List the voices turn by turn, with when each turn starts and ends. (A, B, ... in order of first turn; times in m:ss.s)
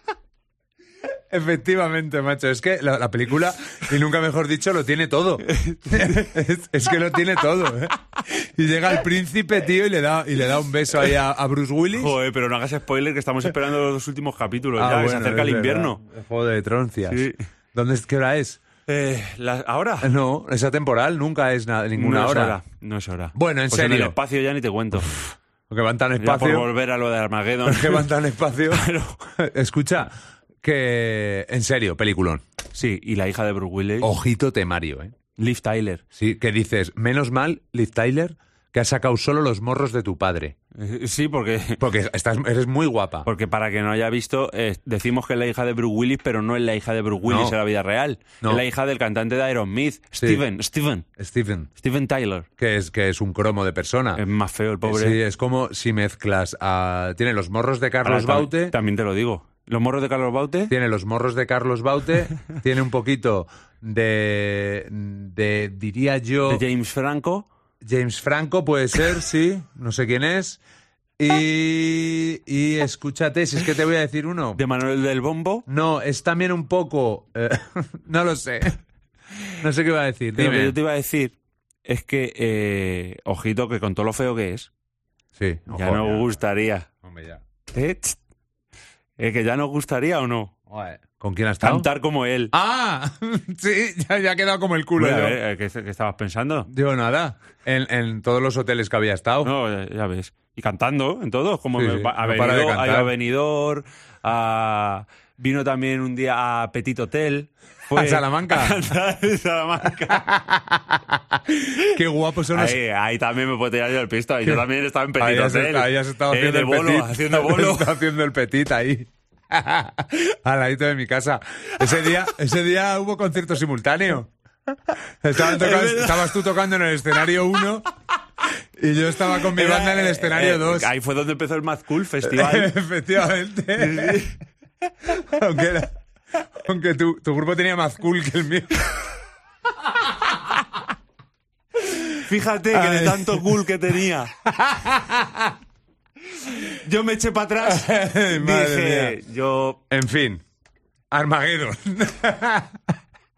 0:01.3-0:12.1 A
0:05.5-0:06.1 B
0:11.9-0:16.0 B
0:14.8-0:18.6 A
0:17.1-0:17.4 B
0:18.9-0:20.1 B
0:20.0-0:22.6 A
0:22.0-0:25.2 B
0:23.4-0:24.2 A
0:25.1-0:26.7 A
0:26.2-0:28.1 B
0:27.7-0:30.1 A
0:28.7-0:29.2 B
0:30.6-0:32.4 A
0:32.7-0:34.1 B
0:34.0-0:35.2 A
0:35.4-0:36.0 B
0:36.1-0:40.6 A
0:40.8-0:41.8 B
0:41.8-0:43.3 A
0:43.2-0:51.1 B
0:47.3-0:47.6 A
0:51.2-0:51.7 A
0:51.8-0:52.5 B
0:52.6-0:54.2 A
0:54.2-0:55.2 B
0:54.8-0:58.7 A
0:58.0-1:00.7 B
1:00.7-1:06.6 A
1:06.5-1:07.5 B
1:07.8-1:10.6 A
1:11.2-1:14.6 A
1:14.6-1:15.6 B
1:15.7-1:18.8 A
1:19.6-1:20.8 A
1:20.4-1:24.7 B
1:25.4-1:26.3 A
1:25.7-1:26.9 B
1:27.0-1:27.4 A
1:27.7-1:28.2 B
1:29.2-1:30.5 B
1:30.7-1:31.9 A
1:31.6-1:32.5 B
1:32.5-1:35.4 A
1:35.0-1:36.7 B
1:36.7-1:39.5 A
1:39.4-1:50.3 B
1:41.8-1:43.1 A
1:47.9-1:48.8 A
1:50.1-1:52.8 A
1:52.5-1:58.0 B
1:55.2-2:04.3 A
2:05.2-2:07.9 A
2:05.4-2:06.4 B
2:08.8-2:10.9 A
2:09.5-2:12.7 B
2:12.2-2:14.3 A
2:13.8-2:14.4 B
2:15.1-2:16.0 A
2:16.6-2:19.0 A
2:20.0-2:20.4 A
2:21.9-2:22.1 A
2:22.2-2:24.3 B
2:22.7-2:23.6 A
2:24.4-2:25.6 A
2:26.5-2:29.8 B
2:27.6-2:29.2 A
2:29.9-2:30.4 A
2:31.1-2:32.8 A